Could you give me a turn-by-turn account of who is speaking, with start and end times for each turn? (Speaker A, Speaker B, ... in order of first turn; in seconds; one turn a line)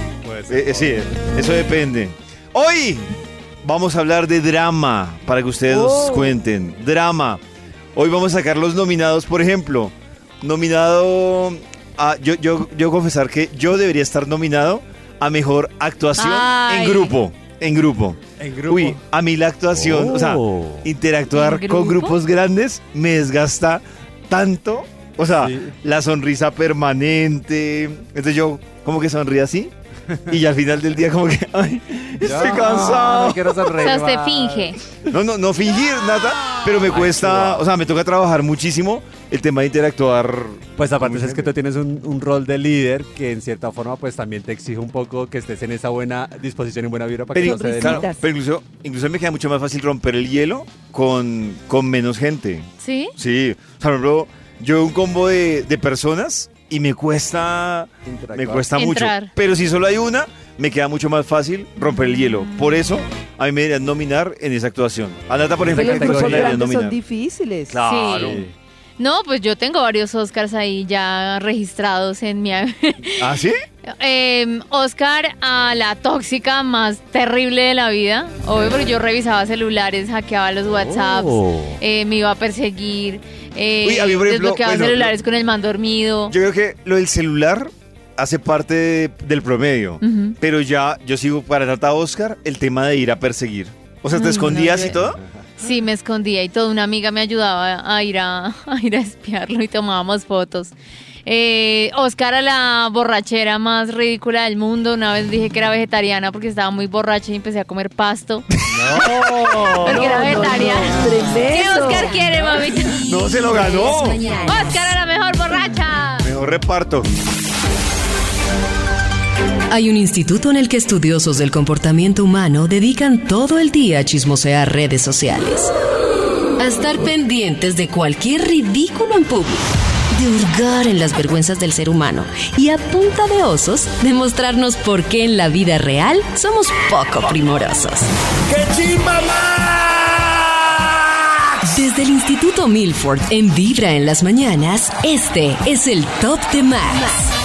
Speaker A: 0.2-1.0
Speaker B: 0.5-7.4
Speaker C: 5.7-6.4
Speaker B: 8.0-29.7
Speaker D: 16.2-17.1
Speaker A: 18.4-19.0
Speaker A: 19.7-20.9
Speaker D: 21.3-22.2
Speaker A: 25.4-25.7
Speaker B: 30.3-33.9
Speaker A: 32.2-34.7
Speaker D: 33.8-34.8
Speaker B: 35.1-41.5
Speaker A: 36.9-37.6
Speaker A: 40.8-48.1
Speaker B: 47.3-67.0
Speaker C: 47.4-48.2
Speaker D: 52.8-53.1
Speaker A: 58.1-58.6
Speaker D: 58.8-59.3
Speaker A: 65.7-66.6
Speaker C: 65.7-67.8
Speaker B: 67.7-68.4
Speaker D: 67.8-68.4
Speaker A: 68.2-68.5
Speaker D: 69.0-73.3
Speaker B: 73.2-73.6
Speaker D: 73.9-86.3
Speaker A: 80.7-81.8
Speaker B: 83.8-85.2
Speaker B: 86.3-95.2
Speaker D: 90.0-90.4
Speaker D: 94.1-95.0
Speaker D: 95.6-100.7
Speaker D: 101.3-108.5
Speaker B: 108.8-110.5
Speaker A: 108.9-110.4
Speaker D: 109.6-113.0
Speaker C: 109.8-112.1
Speaker E: 111.4-115.0
Speaker B: 113.0-114.2
Speaker D: 114.5-116.3
Speaker B: 116.2-117.1
Speaker E: 119.7-125.7
Speaker E: 126.6-138.1
Speaker B: 138.5-140.8
Speaker E: 141.7-147.3